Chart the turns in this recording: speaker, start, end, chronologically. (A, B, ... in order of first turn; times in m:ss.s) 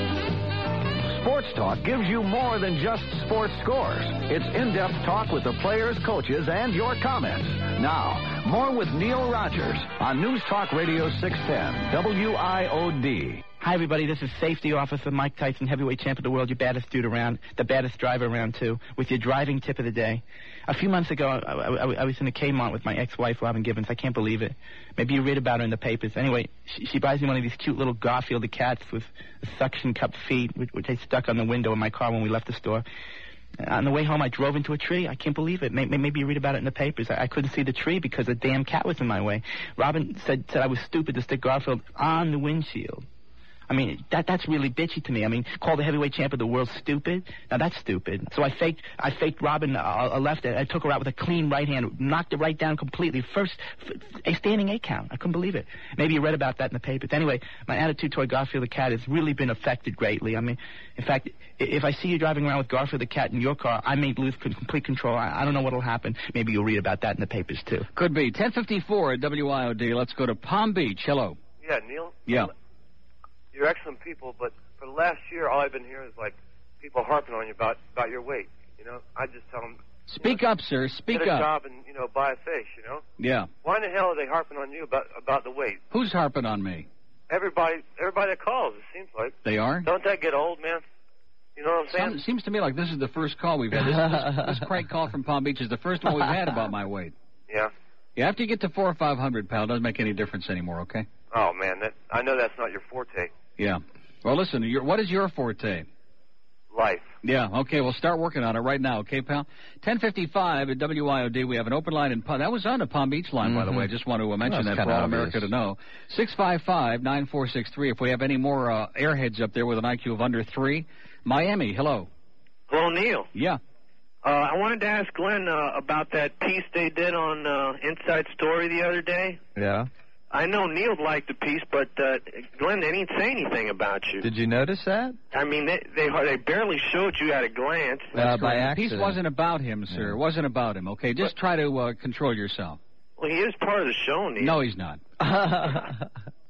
0:01.0-0:13.4 A
0:13.6-0:32.8 B
0:33.6-0:43.0 B
0:43.7-1:07.9 B
1:07.9-1:11.4 C
1:11.6-1:12.5 D
1:12.2-1:12.5 C
1:13.5-1:20.4 D
1:20.1-1:21.5 C
1:21.1-1:23.0 D
1:23.2-1:23.5 C
1:23.6-1:25.8 D
1:25.9-1:26.9 C
1:27.3-1:30.8 D
1:29.4-1:29.9 C
1:31.6-1:32.2 D
1:31.9-1:37.1 C
1:38.2-1:41.1 C
1:41.3-1:43.3 D
1:43.6-1:45.9 C
1:46.7-1:47.1 D
1:47.2-2:02.1 C
1:53.4-1:53.9 E
1:54.4-1:55.5 E
2:02.7-2:03.3 F
2:03.3-2:03.6 C
2:04.2-2:09.4 F
2:09.6-2:09.9 E
2:10.3-2:14.3 F
2:14.2-2:15.2 E
2:15.3-2:18.1 F
2:18.1-2:19.2 E
2:18.1-2:22.8 C
2:19.9-2:20.2 E
2:23.2-2:24.5 F
2:24.4-2:25.0 C
2:25.2-2:26.0 E